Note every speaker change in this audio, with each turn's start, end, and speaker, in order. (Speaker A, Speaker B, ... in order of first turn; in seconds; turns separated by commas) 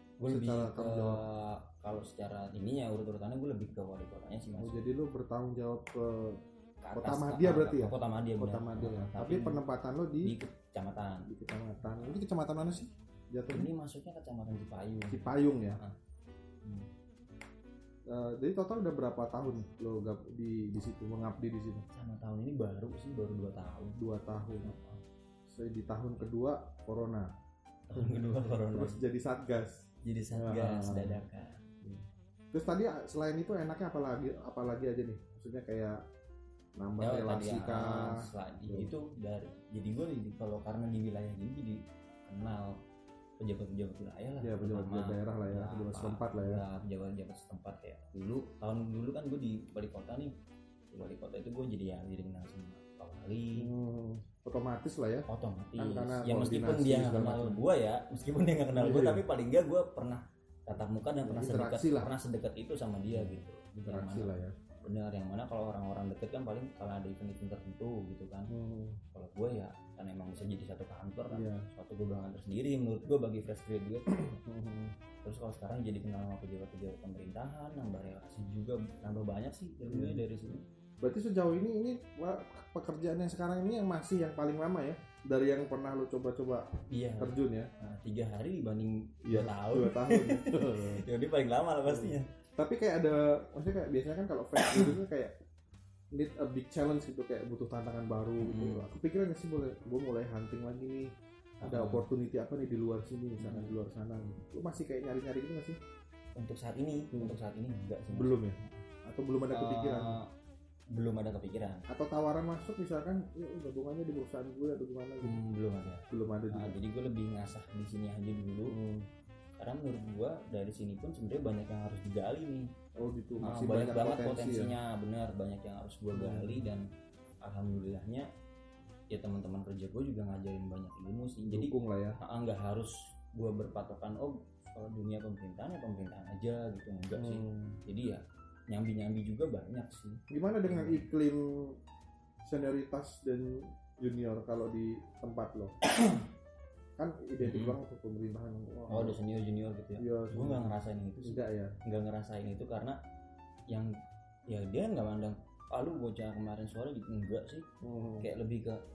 Speaker A: 0.2-4.8, Speaker B: 0.3-1.2, Speaker B: 4.6-6.4, Speaker A: 6.8-9.6, Speaker B: 7.0-10.3, Speaker A: 10.2-11.3, Speaker B: 11.3-13.7, Speaker A: 11.8-12.2, Speaker A: 13.5-15.9, Speaker B: 15.1-15.8, Speaker B: 18.1-21.9, Speaker A: 21.9-24.0, Speaker B: 24.0-24.7, Speaker A: 24.6-25.0, Speaker B: 25.5-27.3, Speaker A: 27.9-29.0, Speaker B: 27.9-31.2, Speaker A: 30.0-31.6, Speaker B: 31.8-36.0, Speaker B: 36.8-38.9, Speaker A: 37.0-42.8, Speaker A: 43.4-50.3, Speaker B: 44.4-46.6, Speaker A: 50.9-53.7, Speaker B: 53.6-57.6, Speaker A: 55.3-68.5, Speaker B: 58.8-59.2, Speaker B: 61.2-62.1, Speaker B: 63.1-64.5, Speaker B: 68.5-69.0, Speaker A: 69.1-74.3, Speaker B: 71.3-71.6, Speaker B: 74.1-74.9, Speaker A: 75.2-80.6, Speaker B: 79.9-80.2, Speaker B: 81.0-86.7, Speaker A: 86.9-92.3, Speaker B: 87.2-87.7, Speaker B: 89.2-91.0, Speaker B: 91.8-95.3, Speaker B: 96.1-101.1, Speaker A: 98.4-98.8, Speaker A: 101.6-102.1, Speaker B: 101.6-105.8, Speaker A: 103.4-103.8, Speaker A: 106.4-108.8, Speaker B: 108.1-110.2, Speaker A: 109.5-110.3, Speaker A: 110.9-111.8, Speaker B: 111.9-115.3, Speaker A: 115.2-118.8, Speaker B: 116.1-116.8, Speaker B: 118.7-119.1, Speaker A: 119.6-122.7, Speaker B: 123.0-124.7, Speaker A: 123.4-126.8, Speaker B: 126.1-126.7, Speaker A: 127.4-128.3, Speaker A: 129.1-141.0, Speaker B: 131.5-132.2, Speaker B: 137.2-137.8, Speaker B: 140.3-141.8, Speaker B: 142.4-145.8, Speaker B: 147.0-149.2, Speaker A: 147.4-147.8, Speaker A: 148.9-153.0, Speaker B: 150.0-150.7, Speaker B: 151.2-151.7, Speaker A: 154.5-157.7, Speaker B: 157.8-158.3, Speaker A: 158.2-158.8